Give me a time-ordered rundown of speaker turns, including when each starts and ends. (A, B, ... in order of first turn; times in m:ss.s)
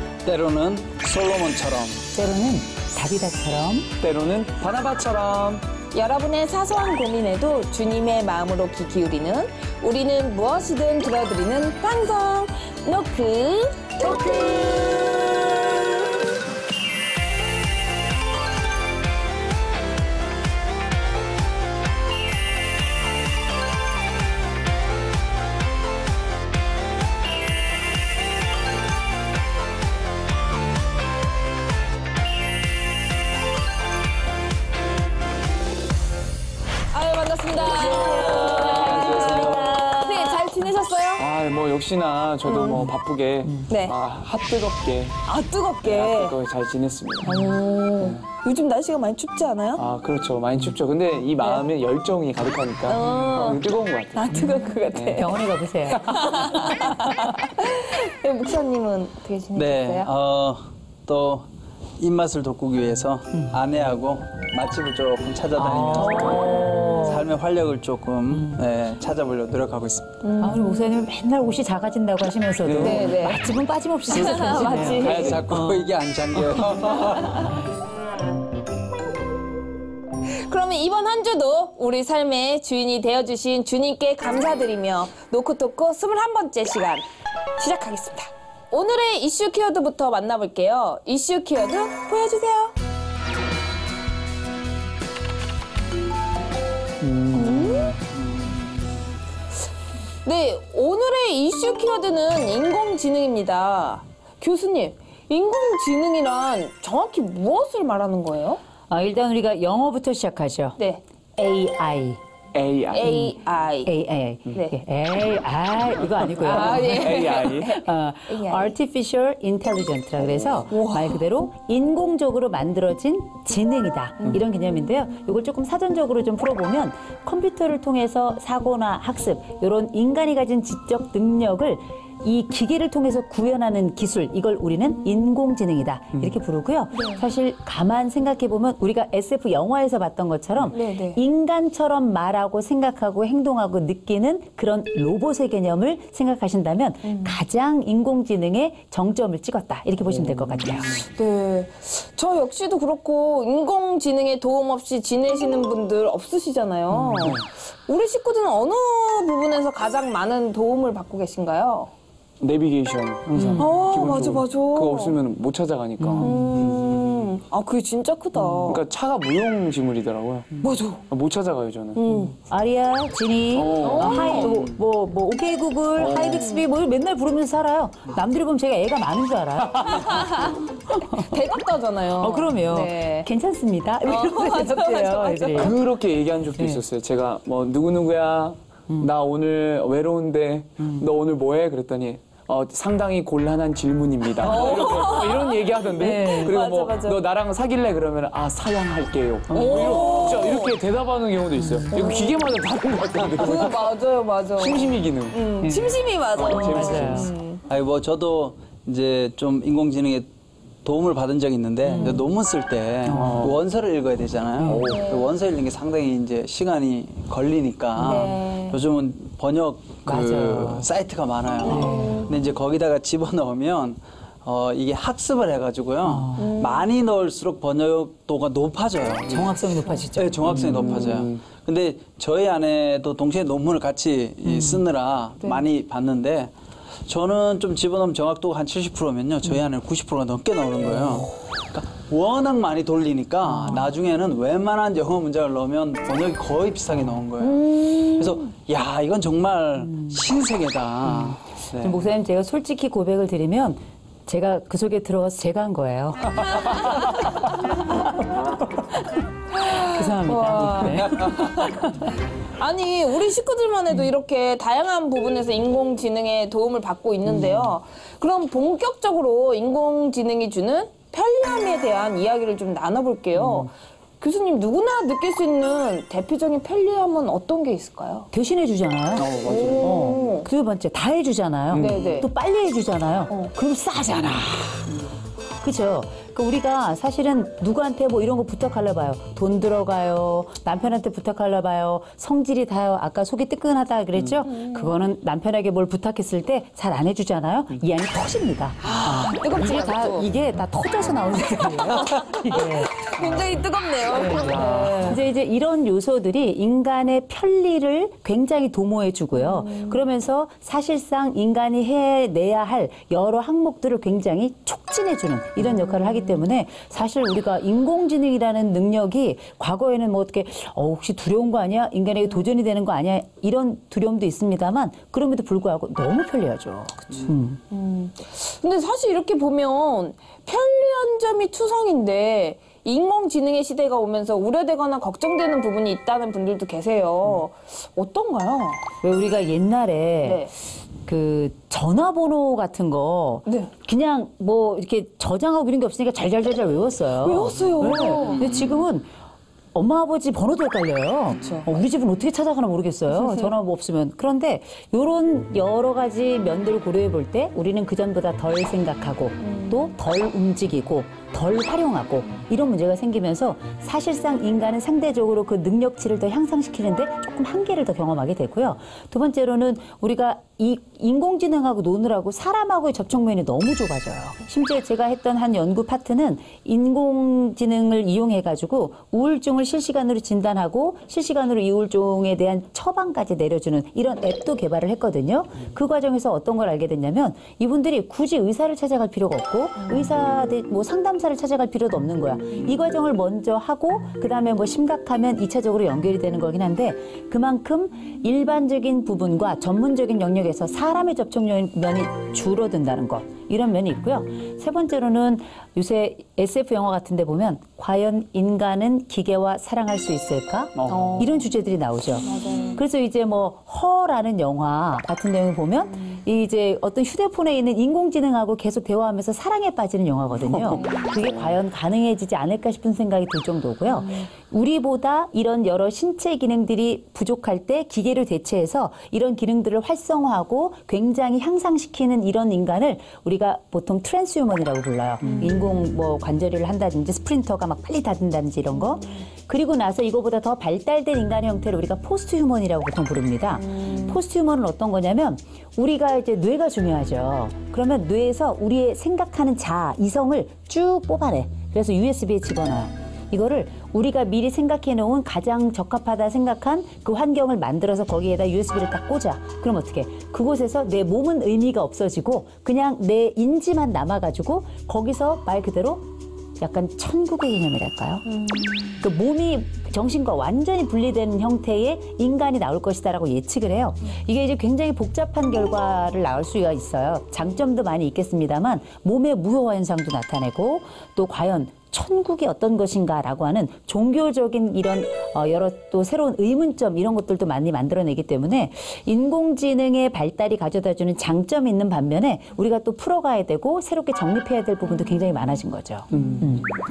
0:00.2-0:02.0 A
0:02.1-0:03.9 B
0:04.0-0:05.6 C
0:05.9-0:15.9 D
0:36.9-0:41.2 D
0:37.8-0:39.6 C
0:38.1-0:39.8 A
0:38.6-0:40.4 B
0:41.2-0:45.2 C
0:42.4-0:42.9 D
0:43.7-0:43.9 D
0:45.2-0:46.4 D
0:45.8-0:47.4 C
0:47.2-0:49.8 D
0:49.8-0:55.2 C
0:52.9-0:53.6 D
0:54.2-0:55.4 D
0:55.1-0:56.9 B
0:55.9-1:00.1 D
0:59.5-1:01.5 A
1:02.0-1:10.2 A
1:05.6-1:07.2 B
1:06.0-1:07.0 D
1:10.2-1:10.8 D
1:10.4-1:15.8 B
1:12.6-1:13.1 C
1:12.8-1:13.5 D
1:14.1-1:15.4 D
1:14.1-1:15.4 C
1:15.0-1:17.5 A
1:20.3-1:27.0 D
1:27.6-1:32.7 D
1:37.0-1:37.9 C
1:37.3-1:38.0 D
1:40.2-1:48.6 D
1:48.9-1:50.8 B
1:51.4-1:52.2 B
1:52.5-1:53.1 C
1:52.9-1:53.9 D
1:53.0-1:53.3 B
1:53.8-2:31.0 B
1:56.4-1:58.7 D
1:56.4-1:57.8 C
2:00.7-2:01.2 D
2:16.9-2:17.2 D
2:20.7-2:21.2 D
2:27.0-2:27.4 D
2:30.1-2:31.0 C
2:31.0-2:41.9 D
2:36.9-2:37.3 B
2:42.4-2:46.5 C
2:43.3-2:43.7 B
2:43.6-2:45.2 D
2:46.0-2:46.4 B
2:46.2-2:48.8 D
2:46.5-2:47.3 A
2:48.4-2:48.8 B
2:48.7-2:50.5 C
2:50.6-2:51.0 D
2:51.1-2:52.0 C
2:52.0-2:52.3 D
2:52.4-3:00.3 B
2:53.5-2:54.5 C
2:53.8-2:54.6 D
2:54.4-2:54.8 A
2:56.0-2:56.4 C
2:56.2-2:56.6 D
3:00.0-3:00.5 D
3:00.9-3:01.3 B
3:01.2-3:03.3 D
3:02.2-3:05.7 B
3:04.0-3:05.7 D
3:05.5-3:24.0 C
3:10.8-3:11.0 B
3:14.4-3:17.2 D
3:14.5-3:14.8 B
3:16.0-3:16.6 B
3:19.5-3:20.2 B
3:19.5-3:20.7 D
3:21.9-3:22.4 D
3:23.4-3:27.6 D
3:24.6-3:25.4 C
3:25.6-3:26.0 B
3:26.3-3:27.3 C
3:26.5-3:27.3 B
3:27.7-3:30.3 A
3:30.8-3:56.5 A
3:31.9-3:32.2 B
3:33.1-3:33.5 B
3:33.1-3:33.6 C
3:34.6-3:35.1 C
3:34.9-3:35.3 D
3:38.0-3:38.3 B
3:38.0-3:38.8 D
3:40.0-3:40.9 B
3:41.6-3:42.2 B
3:41.7-3:42.3 D
3:46.0-3:46.5 B
3:46.4-3:46.8 D
3:49.3-3:51.0 B
3:50.5-3:51.4 C
3:50.8-3:51.1 D
3:54.5-3:54.8 B
3:57.1-4:12.1 A
4:03.5-4:03.9 B
4:07.4-4:08.3 D
4:11.0-4:16.8 B
4:19.5-4:38.3 D
4:19.7-4:22.1 B
4:38.3-4:44.9 B
4:39.2-4:40.2 C
4:39.4-4:40.5 D
4:41.7-4:42.2 C
4:41.7-4:42.3 D
4:45.6-5:03.0 B
4:54.2-4:54.4 C
4:54.4-4:55.0 D
4:58.8-5:00.3 D
5:01.8-5:05.2 D
5:04.1-5:27.6 B
5:04.3-5:05.2 C
5:09.4-5:10.0 D
5:27.7-5:38.8 D
5:39.0-5:40.4 B
5:40.2-5:40.5 D
5:41.0-5:49.1 B
5:43.4-5:43.7 D
5:47.2-5:48.5 D
5:48.2-5:48.8 A
5:49.7-7:46.0 B
5:51.3-5:51.7 D
5:53.1-5:53.5 D
5:59.4-5:59.8 D
6:29.8-6:30.1 D
6:50.8-6:51.2 C
6:50.9-6:51.4 D
6:52.2-6:52.8 D
7:00.4-7:01.6 C
7:00.8-7:01.1 D
7:03.9-7:04.3 D
7:15.2-7:15.8 D
7:23.6-7:24.2 D
7:46.6-7:48.2 B
7:48.2-7:49.0 D
7:49.0-8:16.7 B
8:16.1-8:16.4 C
8:16.1-8:16.4 D